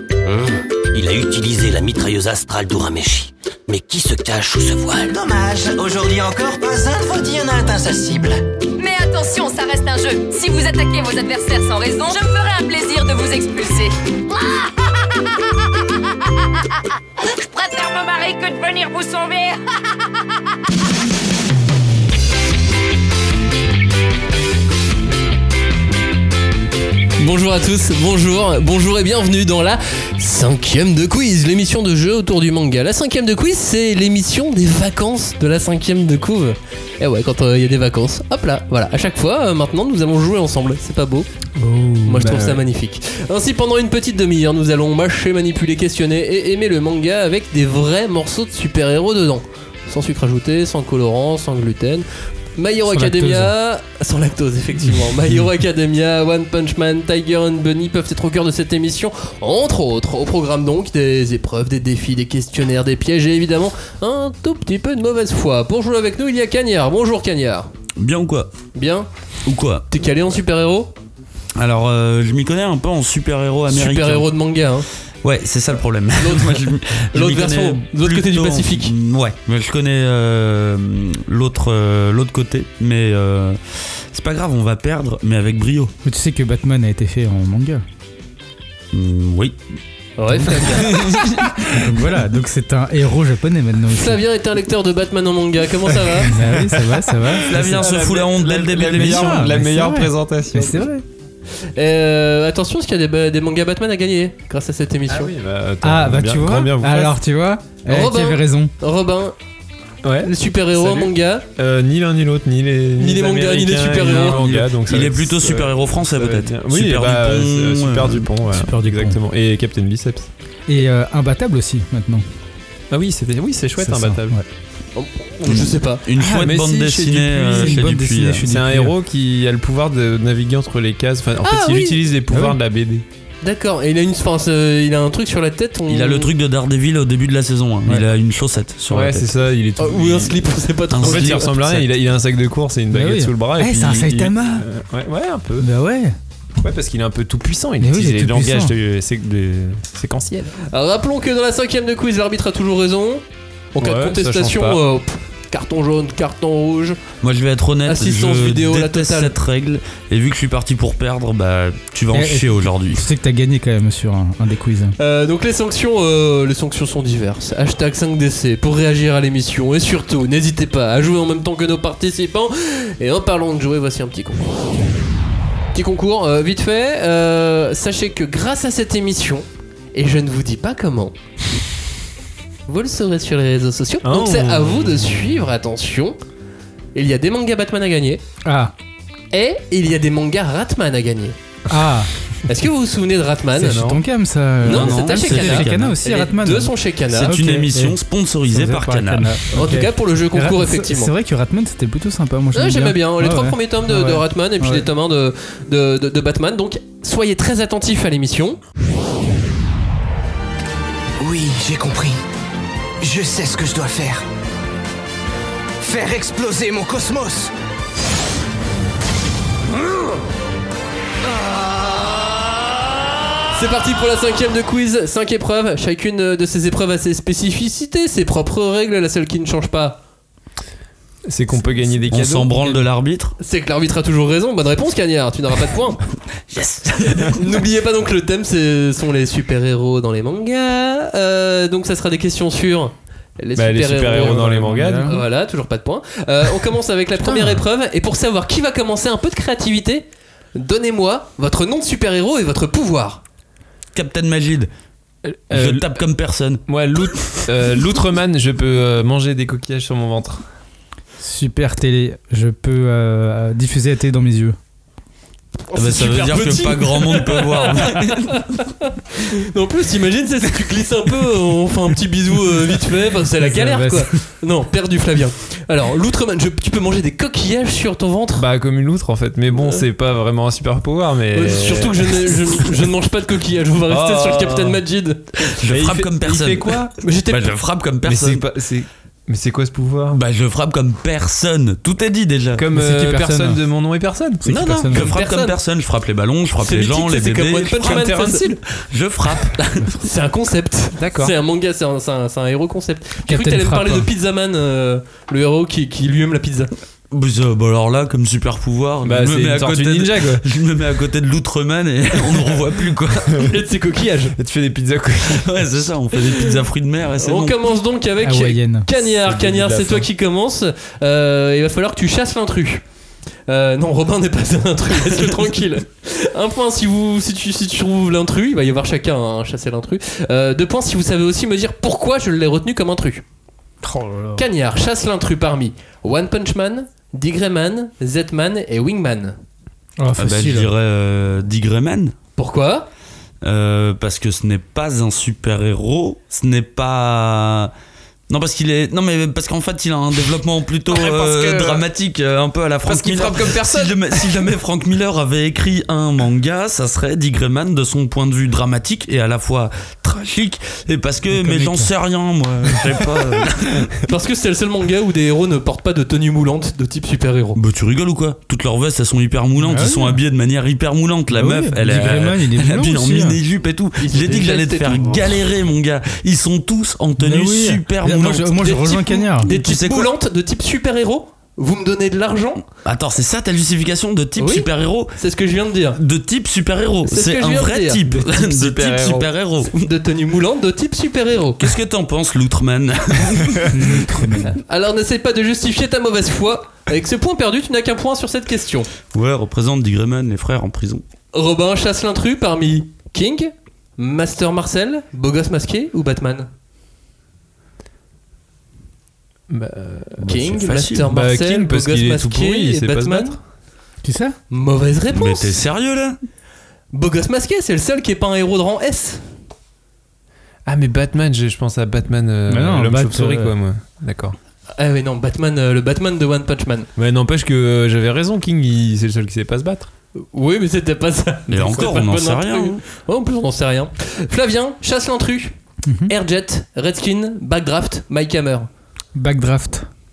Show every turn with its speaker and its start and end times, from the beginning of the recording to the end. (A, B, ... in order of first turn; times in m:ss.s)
0:00.2-0:05.1 A
0:05.1-0:08.4 B
0:08.8-0:16.6 C
0:17.2-0:19.6 C
0:27.2-0:41.3 D
0:41.6-0:42.3 E
0:42.0-1:07.7 D
0:42.2-0:42.6 F
0:52.9-0:53.5 E
1:08.0-1:08.5 G
1:08.7-1:09.1 D
1:09.4-1:09.9 G
1:09.9-1:10.9 D
1:11.6-1:14.3 G
1:13.7-1:14.9 D
1:15.2-1:25.9 G
1:16.2-1:18.9 D
1:26.0-1:27.8 E
1:28.9-1:29.6 G
1:30.2-1:31.0 D
1:30.8-1:31.3 G
1:31.7-1:34.2 E
1:33.9-1:36.3 D
1:36.3-1:37.8 E
1:36.4-1:40.9 F
1:37.4-1:39.5 G
1:38.8-1:41.0 E
1:41.8-1:45.3 D
1:45.1-1:47.1 F
1:45.8-1:48.7 E
1:47.9-1:49.4 D
1:50.0-2:00.3 F
1:50.2-1:51.4 D
1:53.0-1:54.6 D
1:54.0-1:58.3 G
1:58.5-1:59.2 E
2:00.7-2:02.2 E
2:02.9-2:04.3 F
2:03.8-2:04.4 E
2:04.9-2:06.0 D
2:05.5-2:08.5 G
2:06.2-2:06.5 E
2:06.2-2:13.0 F
2:07.5-2:08.9 E
2:11.4-2:12.0 D
2:13.4-2:16.3 D
2:15.9-2:19.4 G
2:18.9-2:25.7 F
2:19.8-2:21.5 D
2:20.9-2:21.8 G
2:22.9-2:24.7 E
2:25.6-2:26.1 E
2:26.6-2:30.6 F
2:27.8-2:28.7 E
2:30.6-2:33.2 D
2:33.7-2:37.0 D
2:33.8-2:34.8 F
2:37.2-2:43.0 G
2:37.8-2:39.3 D
2:42.1-2:44.9 E
2:45.0-2:54.7 D
2:55.7-3:01.2 D
3:02.7-3:06.2 D
3:04.0-3:05.4 F
3:06.9-3:08.2 D
3:08.4-3:08.7 E
3:09.3-3:11.4 D
3:11.7-3:12.1 E
3:12.5-3:13.8 D
3:13.6-3:24.8 E
3:13.6-3:14.0 F
3:14.6-3:17.3 D
3:14.6-3:16.0 G
3:17.1-3:19.3 G
3:19.5-3:21.1 D
3:22.5-3:28.6 D
3:31.2-3:32.2 B
3:33.0-3:34.2 B
3:35.8-3:37.5 B
3:43.5-3:50.0 D
3:51.3-3:52.8 F
3:52.1-3:53.3 G
3:53.4-3:56.0 D
3:56.5-3:57.4 G
3:57.3-4:13.2 D
4:03.6-4:05.2 F
4:04.1-4:05.2 E
4:07.2-4:07.6 E
4:13.9-4:14.7 G
4:15.2-4:16.0 F
4:15.5-4:16.6 G
4:16.7-4:20.4 F
4:21.2-4:24.6 E
4:25.7-4:38.4 D
4:25.7-4:28.4 G
4:33.4-4:34.2 E
4:38.4-4:42.3 F
4:41.3-4:45.4 D
4:43.9-4:44.8 F
4:45.5-4:48.4 G
4:45.6-4:46.9 F
4:47.0-4:47.5 D
4:48.0-4:50.2 F
4:50.1-4:52.6 G
4:52.6-4:54.4 F
4:52.7-4:53.6 E
4:54.4-4:55.1 E
4:54.4-4:58.2 G
4:54.9-4:55.5 D
4:56.6-4:58.5 D
4:57.8-4:58.6 F
4:58.8-4:59.8 G
4:59.6-5:06.7 D
5:01.0-5:01.3 F
5:03.2-5:04.1 E
5:07.1-5:13.4 G
5:09.0-5:10.4 F
5:12.2-5:12.5 F
5:13.4-5:14.3 D
5:14.3-5:15.8 F
5:15.3-5:17.6 G
5:17.2-5:22.8 D
5:18.2-5:18.8 E
5:19.0-5:20.1 F
5:23.5-5:33.2 D
5:33.8-5:34.4 E
5:34.4-5:39.4 D
5:40.0-5:40.7 E
5:40.2-5:42.1 G
5:42.4-5:42.9 D
5:43.4-5:47.7 G
5:48.3-6:03.9 G
5:50.9-5:51.9 F
5:52.8-5:54.5 F
6:01.3-6:01.9 E
6:04.1-6:07.6 D
6:07.6-6:18.7 G
6:09.6-6:10.2 E
6:11.3-6:13.4 E
6:14.0-6:15.3 D
6:17.2-6:19.5 E
6:18.6-6:22.6 D
6:19.4-6:20.1 G
6:22.7-6:25.1 G
6:24.4-6:26.0 D
6:26.0-6:29.8 G
6:27.1-6:28.0 D
6:28.1-6:29.3 F
6:29.7-6:31.6 D
6:31.6-6:34.1 G
6:33.7-6:34.6 E
6:34.6-6:38.9 D
6:39.1-6:41.0 G
6:41.3-6:46.5 D
6:49.5-6:50.3 F
6:50.2-6:51.1 G
6:50.3-6:53.4 D
6:51.0-6:53.4 F
6:54.0-6:54.4 E
6:54.5-6:55.6 D
6:55.1-6:56.2 G
6:56.9-6:59.2 D
7:00.6-7:04.4 F
7:02.5-7:03.5 E
7:04.8-7:06.9 D
7:07.0-7:09.9 F
7:10.2-7:15.5 D
7:11.5-7:12.8 G
7:16.1-7:18.7 D
7:19.2-7:19.9 E